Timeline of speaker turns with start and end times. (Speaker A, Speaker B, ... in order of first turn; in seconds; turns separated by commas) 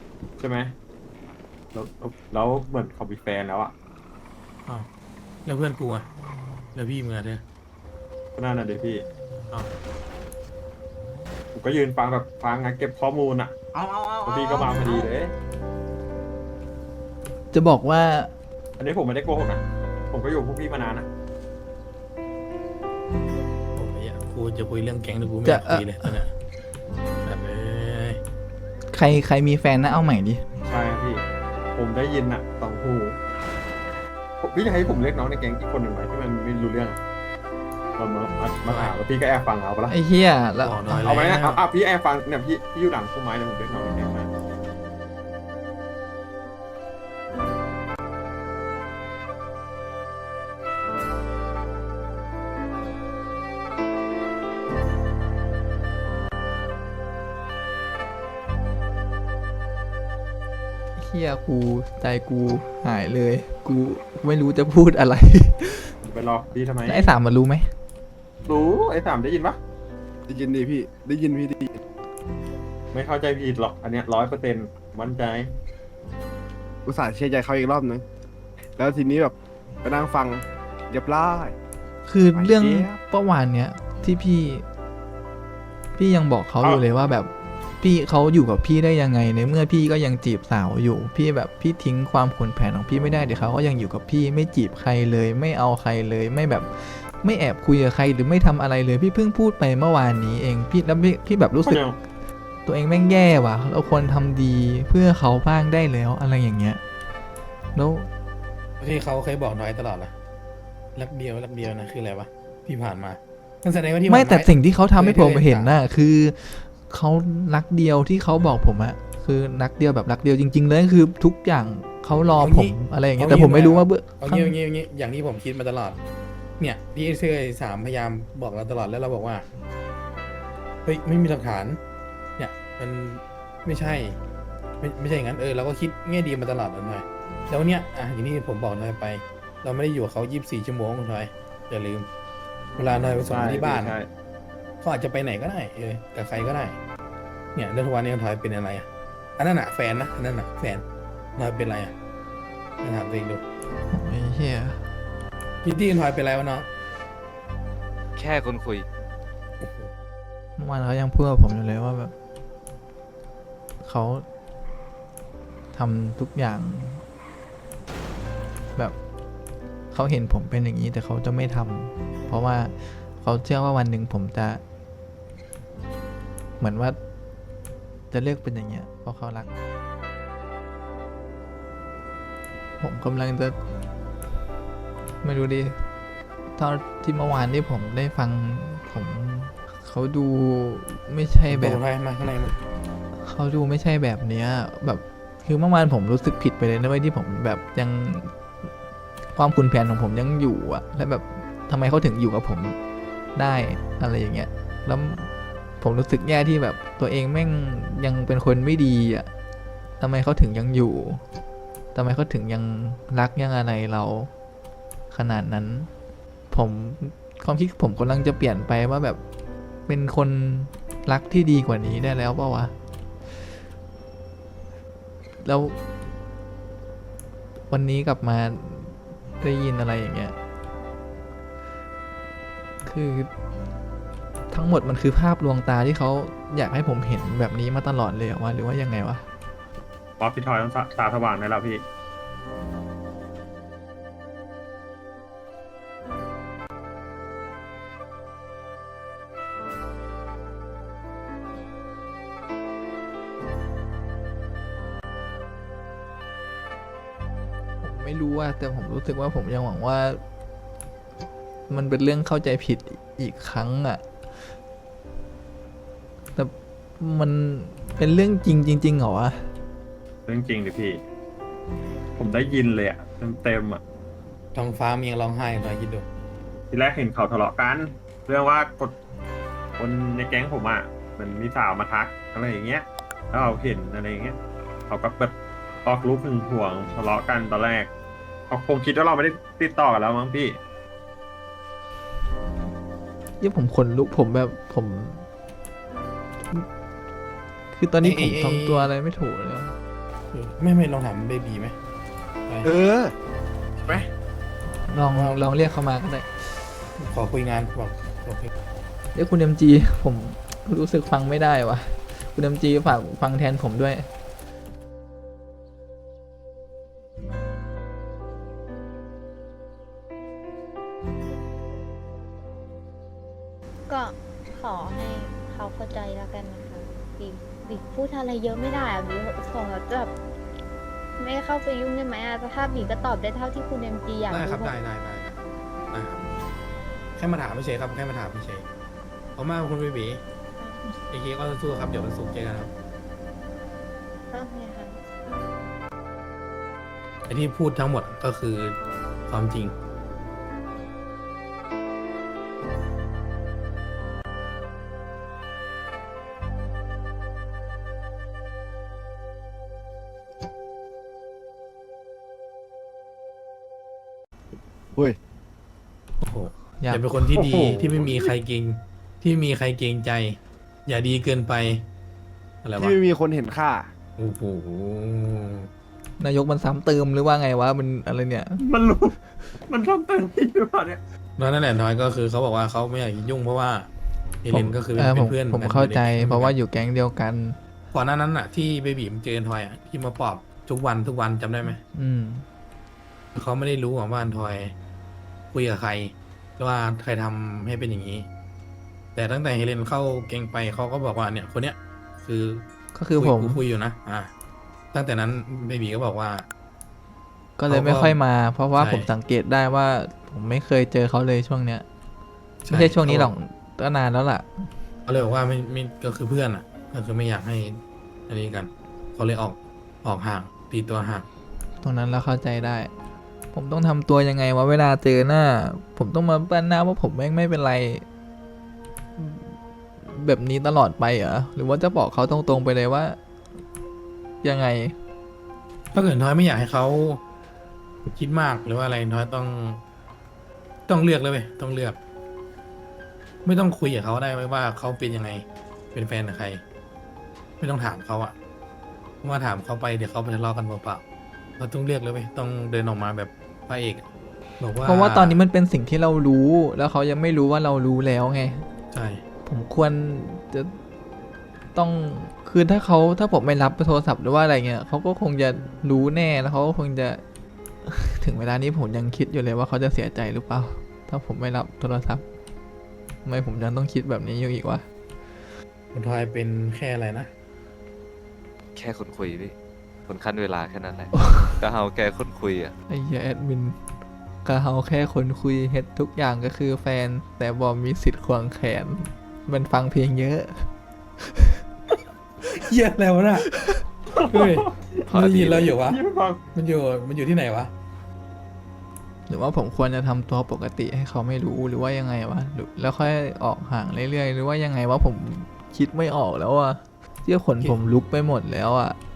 Speaker A: 0.4-0.8, Speaker A: 1.7-3.7, Speaker B: 5.5-6.1, Speaker B: 6.7-7.4, Speaker A: 8.4-9.1, Speaker A: 11.5-13.6, Speaker C: 13.8-14.7, Speaker A: 14.2-15.3, Speaker D: 17.5-18.3, Speaker A: 18.8-21.1, Speaker B: 23.7-26.3, Speaker D: 25.4-26.1, Speaker B: 27.2-28.2, Speaker D: 28.9-30.4, Speaker A: 30.6-31.2, Speaker A: 31.8-33.2, Speaker A: 34.4-37.0, Speaker A: 38.0-40.0, Speaker B: 38.7-39.0, Speaker D: 39.9-41.1, Speaker B: 40.6-41.6, Speaker A: 41.0-44.3, Speaker D: 61.0-66.0, Speaker A: 66.0-67.1, Speaker D: 66.9-67.7, Speaker A: 68.5-69.6, Speaker C: 70.3-71.8, Speaker A: 72.9-75.5, Speaker C: 76.9-78.0, Speaker C: 78.8-81.5, Speaker D: 82.1-84.7, Speaker C: 82.4-83.0, Speaker D: 86.0-101.8, Speaker A: 101.6-102.0, Speaker D: 102.7-106.8, Speaker D: 107.8-108.1, Speaker B: 108.8-110.1, Speaker B: 111.0-115.7, Speaker D: 114.1-124.5, Speaker B: 122.4-126.0, Speaker B: 126.6-129.5, Speaker B: 130.8-131.8, Speaker B: 132.4-134.2, Speaker B: 134.8-142.1, Speaker B: 142.8-144.0, Speaker A: 143.3-144.1, Speaker B: 144.8-146.8, Speaker B: 147.6-150.8, Speaker B: 151.4-151.9, Speaker B: 152.8-153.4, Speaker D: 153.9-154.8, Speaker B: 155.6-156.7, Speaker E: 158.2-158.8, Speaker B: 159.6-159.9, Speaker D: 160.6-162.1, Speaker D: 163.8-164.2, Speaker D: 165.7-167.0, Speaker D: 169.9-174.6, Speaker D: 176.6-177.0, Speaker D: 178.1-179.5, Speaker D: 182.8-183.6, Speaker D: 185.2-185.8, Speaker D: 186.6-191.8, Speaker B: 191.5-192.5, Speaker D: 193.2-198.3, Speaker D: 199.3-202.8, Speaker D: 203.3-205.3, Speaker D: 205.8-209.3, Speaker D: 210.0-211.2, Speaker D: 211.9-214.3, Speaker D: 215.1-215.9, Speaker D: 216.5-219.2, Speaker D: 219.9-222.7, Speaker D: 225.4-225.8, Speaker D: 227.7-230.3, Speaker D: 232.9-233.3, Speaker D: 234.5-239.3, Speaker A: 240.2-241.8, Speaker D: 257.8-260.2, Speaker D: 261.7-264.0, Speaker D: 266.4-269.5, Speaker A: 270.3-271.0, Speaker A: 272.2-273.8, Speaker B: 274.5-276.1, Speaker A: 276.7-279.0, Speaker A: 279.8-284.4, Speaker A: 284.9-287.9, Speaker A: 288.5-290.6, Speaker D: 293.4-295.3, Speaker D: 297.7-299.8, Speaker B: 298.0-298.9, Speaker B: 300.3-301.8, Speaker C: 302.6-303.1, Speaker B: 303.8-304.1, Speaker D: 304.9-306.4, Speaker B: 305.1-305.4, Speaker B: 307.0-308.5, Speaker D: 309.1-314.1, Speaker F: 323.9-330.1, Speaker F: 331.2-334.7, Speaker B: 334.3-335.4, Speaker B: 335.9-336.2, Speaker B: 337.2-338.7, Speaker B: 339.4-340.2, Speaker F: 340.6-340.9, Speaker B: 341.0-342.7, Speaker F: 344.3-345.0, Speaker B: 347.3-348.8, Speaker B: 349.3-349.8, Speaker B: 366.2-371.9, Speaker A: 367.3-368.3, Speaker B: 372.6-373.0, Speaker C: 372.8-373.9, Speaker B: 374.2-375.7, Speaker D: 376.2-378.6, Speaker A: 378.6-379.2, Speaker A: 379.7-381.0, Speaker B: 381.4-383.9, Speaker B: 384.4-386.5, Speaker D: 384.5-387.6, Speaker B: 387.9-391.8, Speaker D: 391.9-392.5, Speaker B: 393.4-394.7, Speaker B: 395.5-398.3, Speaker B: 399.1-402.7, Speaker D: 402.9-403.6, Speaker B: 403.2-404.3, Speaker B: 404.9-406.5, Speaker D: 407.6-411.9, Speaker B: 407.7-408.2, Speaker B: 408.8-409.1, Speaker B: 412.6-413.3, Speaker D: 412.7-414.7, Speaker B: 415.1-421.3, Speaker D: 421.8-422.9, Speaker D: 423.5-428.1, Speaker D: 429.2-433.2, Speaker D: 434.4-435.0, Speaker B: 435.9-437.2, Speaker B: 438.0-439.8, Speaker B: 440.9-442.0, Speaker B: 443.4-446.6, Speaker B: 447.6-448.4, Speaker B: 449.2-451.0, Speaker B: 451.6-454.1, Speaker B: 454.6-455.4, Speaker D: 454.8-458.7, Speaker B: 458.9-459.2, Speaker D: 459.4-460.8, Speaker D: 461.7-467.2, Speaker D: 467.9-472.2, Speaker D: 473.2-474.9, Speaker B: 475.9-477.3, Speaker E: 478.8-479.5, Speaker E: 480.1-482.7, Speaker D: 482.9-483.8, Speaker D: 484.4-490.7, Speaker D: 491.2-491.6, Speaker B: 492.5-493.5, Speaker A: 494.1-496.4, Speaker B: 494.3-496.0, Speaker E: 495.1-495.6, Speaker B: 496.5-497.7, Speaker D: 499.3-509.0